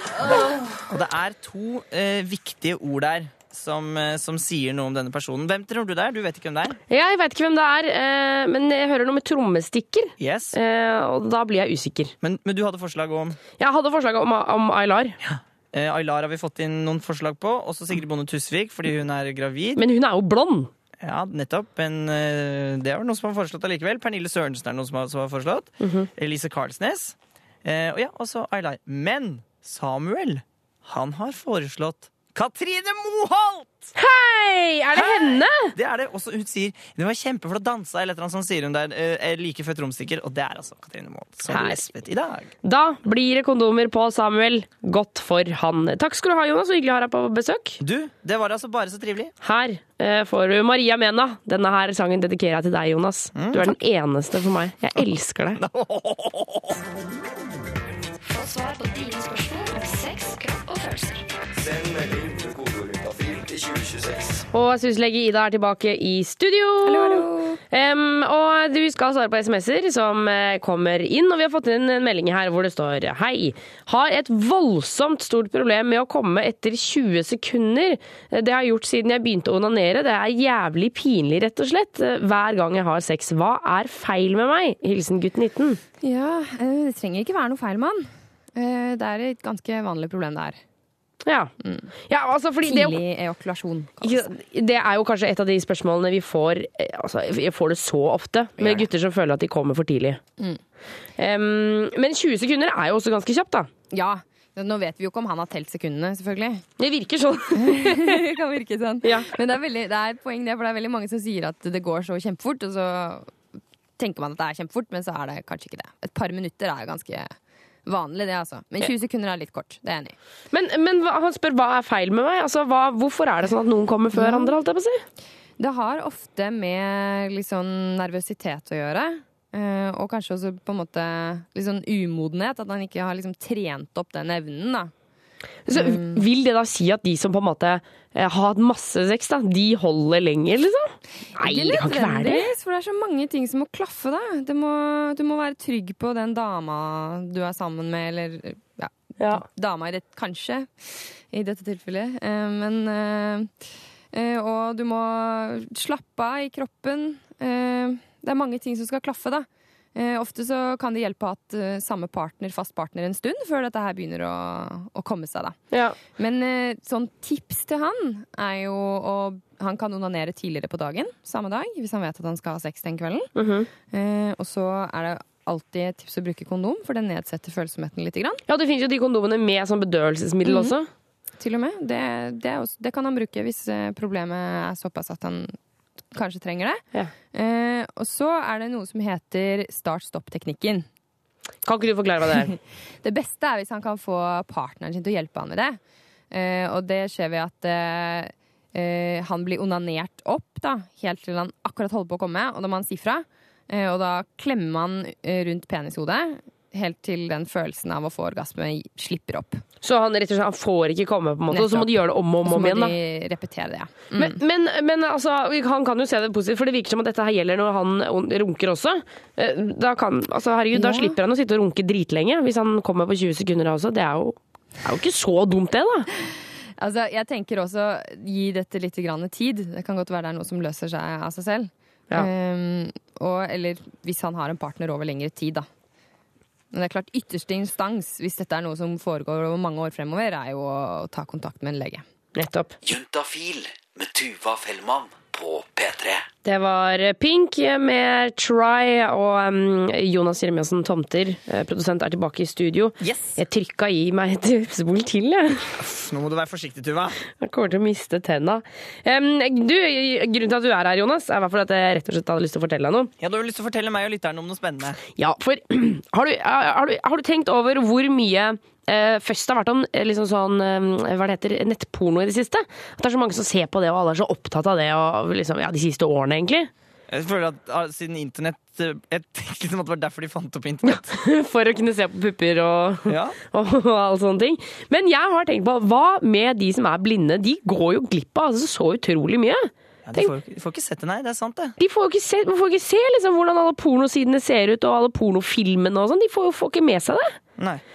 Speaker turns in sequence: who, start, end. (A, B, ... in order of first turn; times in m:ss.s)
0:00.9-0:06.8 A
0:06.9-0:12.1 B
0:10.2-0:10.6 A
0:12.2-0:13.4 A
0:13.6-0:15.2 B
0:15.2-0:19.8 A
0:19.8-0:20.7 B
0:21.0-0:33.9 A
0:25.8-0:26.1 B
0:34.0-0:35.8 B
0:35.0-0:42.5 A
0:41.5-0:41.8 B
0:42.6-0:47.8 B
0:47.8-0:49.3 A
0:49.4-0:55.6 B
0:53.4-0:53.8 A
0:55.6-0:56.8 A
0:58.2-1:01.3 C
1:04.5-1:25.8 B
1:06.8-1:07.6 D
1:26.0-1:30.6 D
1:31.3-1:31.5 B
1:31.6-1:31.9 D
1:32.1-1:33.0 B
1:32.6-1:34.4 D
1:34.0-1:40.2 B
1:38.6-1:38.9 A
1:41.2-1:43.7 B
1:43.9-1:46.6 D
1:46.8-1:48.3 B
1:47.6-1:53.3 D
1:49.0-1:49.4 B
1:54.0-1:57.3 D
1:57.9-2:00.2 D
2:00.5-2:05.0 B
2:04.2-2:04.6 D
2:05.6-2:14.9 D
2:15.7-2:22.5 B
2:15.7-2:16.2 D
2:21.4-2:33.5 D
2:34.1-2:53.3 D
2:45.7-2:46.0 B
2:53.4-2:53.7 B
2:53.9-2:58.4 D
2:58.5-3:00.9 B
3:00.4-3:00.8 D
3:01.4-3:05.6 D
3:06.1-3:10.9 D
3:11.6-3:12.5 B
3:12.5-3:15.8 D
3:16.3-3:29.6 D
3:29.8-3:32.9 B
3:31.5-3:34.4 D
3:34.2-3:46.1 B
3:40.7-3:41.2 D
3:46.2-3:55.7 D
3:56.7-4:02.0 D
4:02.4-4:02.7 B
4:02.8-4:06.3 E
4:06.4-4:15.7 B
4:13.0-4:13.4 A
4:15.8-4:17.2 A
4:17.4-4:23.1 B
4:23.2-4:25.0 A
4:25.2-4:36.7 B
4:37.1-4:41.2 A
4:40.9-4:50.3 B
4:43.1-4:43.4 A
4:50.1-4:51.8 A
4:51.8-4:57.4 B